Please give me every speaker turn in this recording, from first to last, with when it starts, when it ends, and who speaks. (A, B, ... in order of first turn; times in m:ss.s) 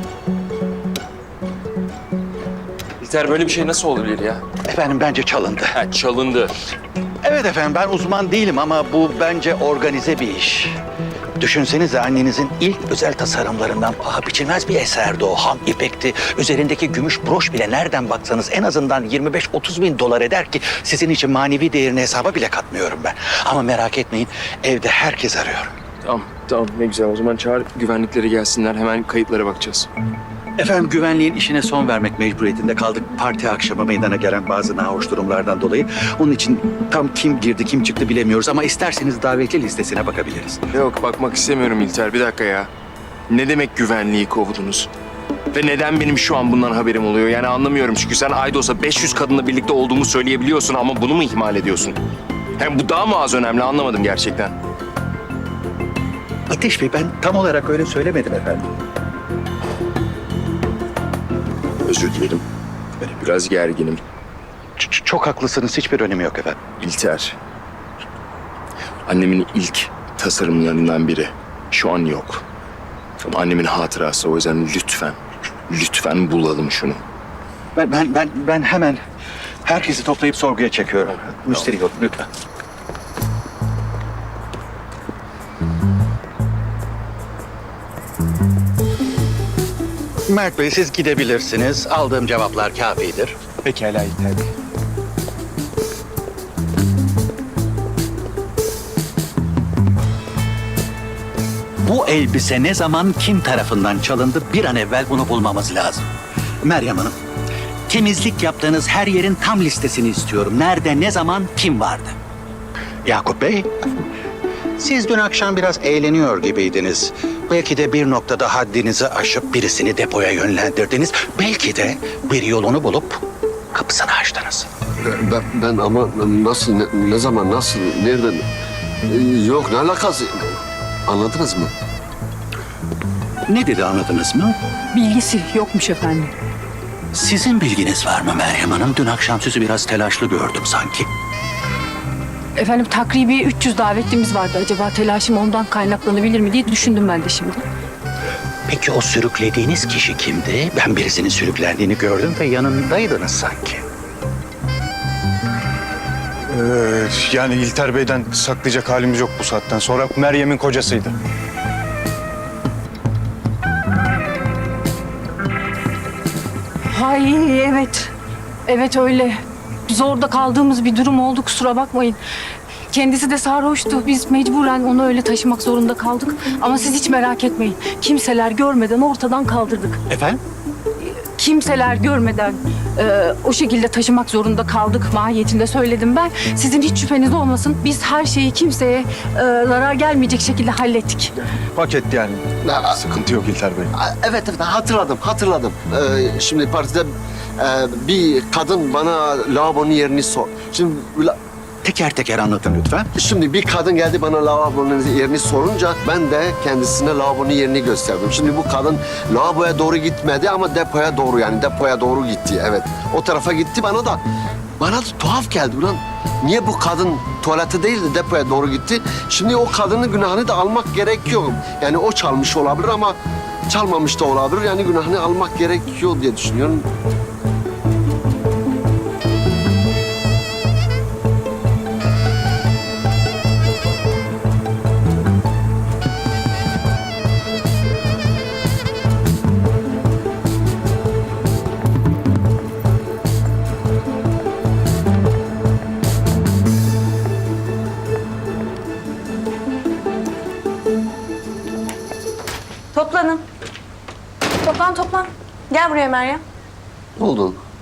0:03.0-0:04.4 A
0:04.6-0:05.8 B
0:05.8-0:06.5 A
0:07.2-0:10.8 B
0:11.4-0:25.7 B
0:26.0-0:29.9 A
0:30.6-0:40.6 B
0:40.7-0:42.7 A
0:43.3-0:44.9 A
0:45.5-0:52.0 A
0:52.6-0:54.6 A
0:56.5-0:58.7 B
1:01.8-1:02.4 A
1:03.1-1:04.0 A
1:04.8-1:06.6 B
1:06.8-1:07.4 A
1:09.0-1:12.4 A
1:13.2-1:15.2 A
1:15.7-1:17.0 A
1:17.7-1:19.0 B
1:19.6-1:22.2 B
1:30.3-1:33.3 B
1:33.6-1:34.5 C
1:41.8-1:46.1 B
1:46.6-1:47.2 B
1:47.9-1:52.2 B
1:53.0-1:53.7 B
1:54.8-2:03.2 B
2:03.7-2:04.7 B
2:05.0-2:08.4 D
2:09.1-2:10.5 D
2:11.1-2:11.7 D
2:13.5-2:14.6 B
2:14.9-2:16.3 E
2:17.1-2:21.1 B
2:22.6-2:27.6 E
2:28.7-2:33.8 B
2:36.5-2:41.1 C
2:46.9-2:48.1 E
2:48.7-2:52.2 E
2:52.9-3:00.0 E
3:00.1-3:00.4 B
3:01.0-3:11.3 E
3:11.7-3:13.9 C
3:12.6-3:12.9 D
3:13.9-3:21.4 D
3:21.8-3:23.1 B
3:23.2-3:34.2 D
3:34.8-3:46.9 D
4:12.9-4:13.4 F
4:14.6-4:16.4 F
4:17.2-4:17.6 D